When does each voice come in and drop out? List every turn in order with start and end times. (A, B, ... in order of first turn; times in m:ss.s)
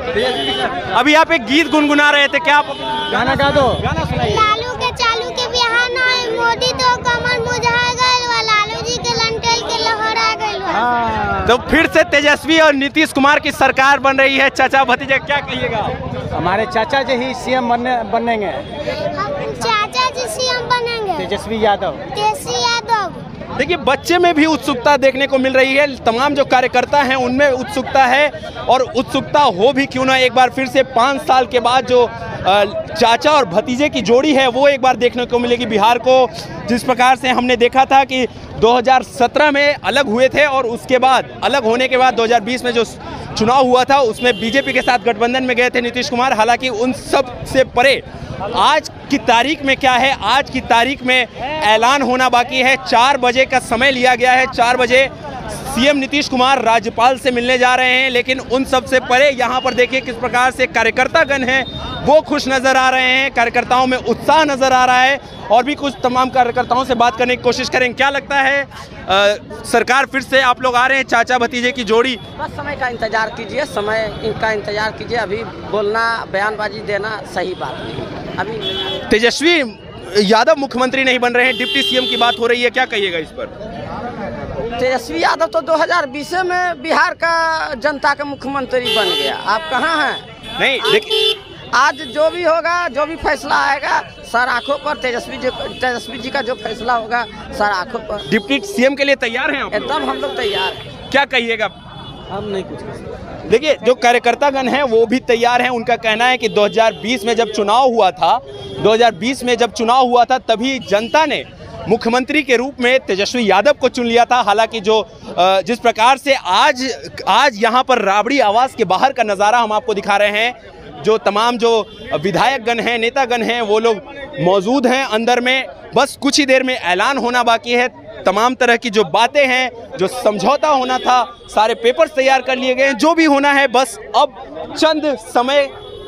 0:00.1-0:04.4 A
0:03.1-0:03.8 B
0:04.2-0:10.9 C
0:10.8-0:11.5 B
0:11.4-0:15.9 A
0:16.3-0:18.8 B
0:18.9-0:21.3 C
0:21.2-0:22.0 B
0:22.1-0:23.2 C
0:23.6-1:12.2 A
1:12.4-1:19.0 D
1:19.1-1:23.5 A
1:24.7-1:30.2 D
1:30.6-1:31.1 A
1:30.8-1:38.2 D
1:38.2-1:40.0 A
1:39.7-1:40.8 D
1:41.1-1:41.7 A
1:42.4-1:42.8 D
1:43.5-2:15.7 A